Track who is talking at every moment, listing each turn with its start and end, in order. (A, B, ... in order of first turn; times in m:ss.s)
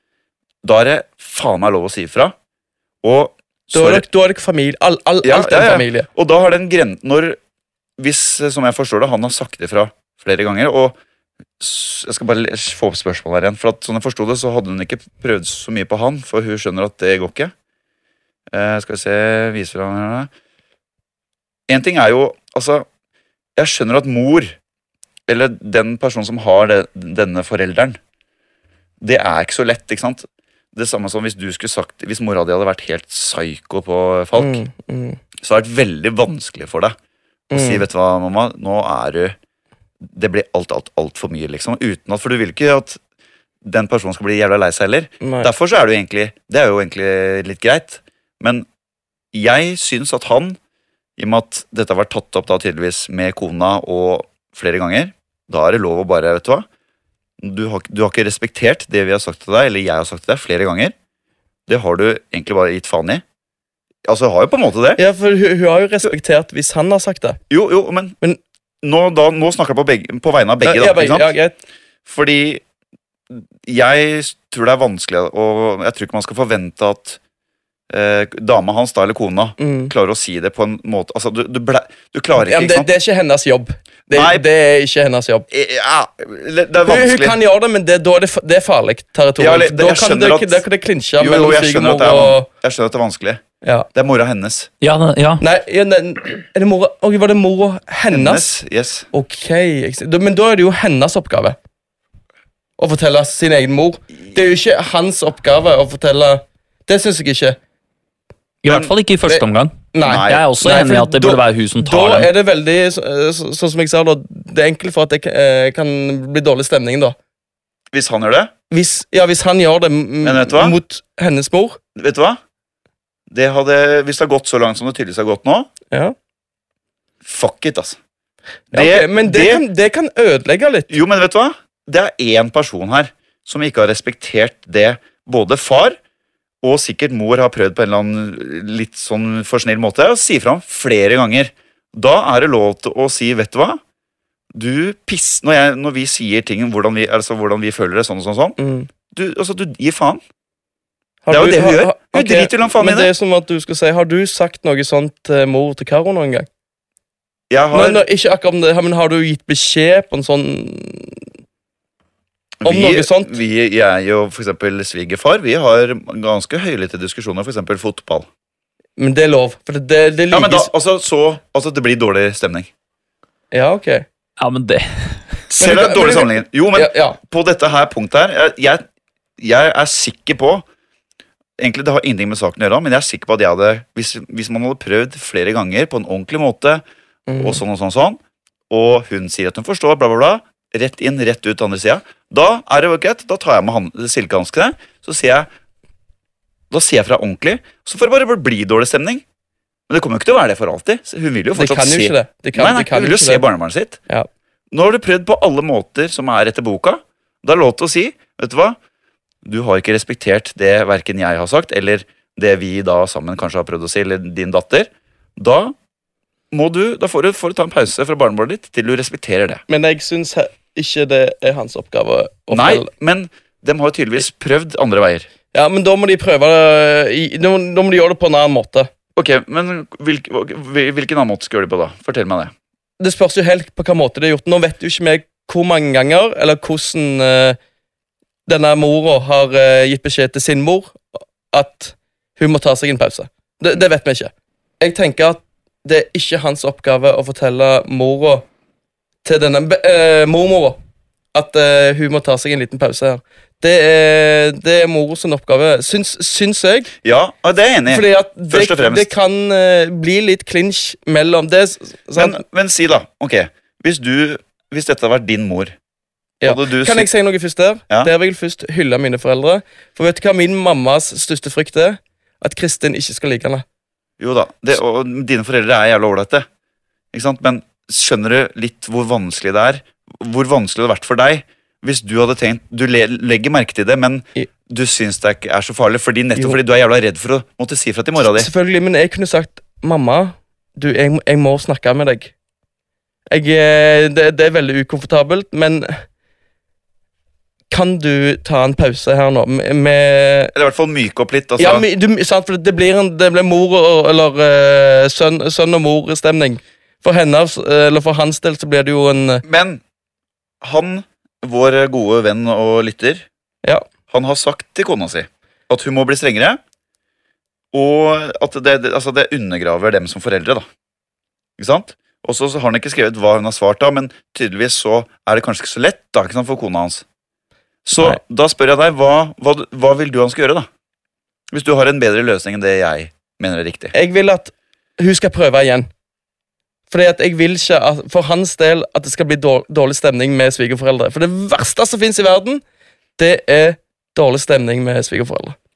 0:00.6-0:02.3 A
0:03.0-0:04.0 A
0:03.7-0:06.1 B
0:05.2-0:07.4 A
0:08.0-0:11.0 A
0:11.6-0:17.5 A
0:18.5-0:20.3 A
0:21.7-0:22.8 A
0:23.6-0:24.6 A
0:25.3-0:28.0 A
0:29.0-0:34.6 A
0:34.4-0:35.2 B
0:35.4-0:36.9 A
0:37.5-0:37.8 B
0:37.5-0:39.3 A
0:40.0-0:43.0 A
0:43.6-0:48.6 A
0:45.2-0:45.5 B
0:49.3-0:50.6 A
0:51.2-0:56.6 A
0:57.4-1:00.9 A
1:01.7-1:03.2 A
1:04.0-1:05.0 A
1:05.0-1:07.4 B
1:07.5-1:08.2 A
1:08.8-1:11.3 A
1:10.6-1:11.6 B
1:12.0-1:12.6 A
1:13.3-1:17.2 A
1:17.9-1:22.9 A
1:19.6-1:19.9 B
1:22.4-1:25.5 B
1:24.1-1:24.4 A
1:25.5-1:27.4 A
1:26.8-1:32.5 B
1:29.4-1:30.6 A
1:31.2-1:33.4 A
1:33.6-1:33.9 B
1:33.9-1:34.7 A
1:34.8-1:35.4 C
1:35.4-1:38.5 B
1:38.1-1:39.1 A
1:39.1-1:41.6 B
1:42.8-1:47.6 B
1:48.6-1:52.3 C
1:48.7-1:48.9 A
1:49.3-1:57.2 B
1:50.0-1:50.5 A
1:57.9-1:58.5 A
1:58.7-2:01.8 B
2:00.2-2:00.8 A
2:01.9-2:02.4 A
2:03.3-2:05.7 A
2:07.2-2:08.0 A
2:08.7-2:09.6 A
2:08.7-2:10.9 B
2:10.9-2:16.0 A
2:16.6-2:23.8 A
2:24.5-2:28.6 A
2:28.6-2:28.9 B
2:29.1-2:30.2 A
2:31.2-2:36.5 B
2:31.3-2:33.1 A
2:37.5-2:38.0 A
2:37.7-2:41.2 B
2:42.6-2:48.3 A
2:42.6-2:43.4 B
2:49.0-2:50.7 B
2:50.3-2:52.7 A
2:53.5-2:54.0 B
2:54.4-2:55.2 C
2:55.5-2:58.8 A
2:55.5-2:57.2 B
2:59.4-3:00.6 A
3:01.6-3:06.8 A
3:07.3-3:07.6 B
3:07.4-3:08.2 A
3:08.7-3:15.5 A
3:16.7-3:19.2 A
3:19.9-3:24.0 A
3:21.5-3:23.4 B
3:24.7-3:28.8 A
3:29.4-3:35.7 A
3:36.5-3:39.6 A
3:39.7-3:42.9 B
3:42.5-3:45.3 A
3:45.5-3:48.9 B
3:49.2-3:52.5 A
3:53.0-3:57.6 B
3:58.4-4:08.4 B
4:09.2-4:10.8 B
4:11.3-4:16.9 B
4:17.0-4:19.1 A
4:17.9-4:22.4 B
4:22.2-4:25.7 A
4:26.4-4:33.6 B
4:26.4-4:27.1 A
4:34.2-4:36.4 A
4:37.1-4:48.5 A
4:48.2-4:52.3 B
4:53.3-4:56.0 B
4:57.7-5:00.5 B
5:00.5-5:01.8 A
5:01.6-5:09.4 B
5:09.4-5:09.8 A
5:10.6-5:13.2 A
5:14.1-5:16.6 A
5:17.7-5:20.6 A
5:21.6-5:27.0 A
5:27.8-5:30.7 A
5:31.5-5:33.9 A
5:33.9-5:35.9 B
5:36.9-5:42.6 B
5:43.2-5:45.6 B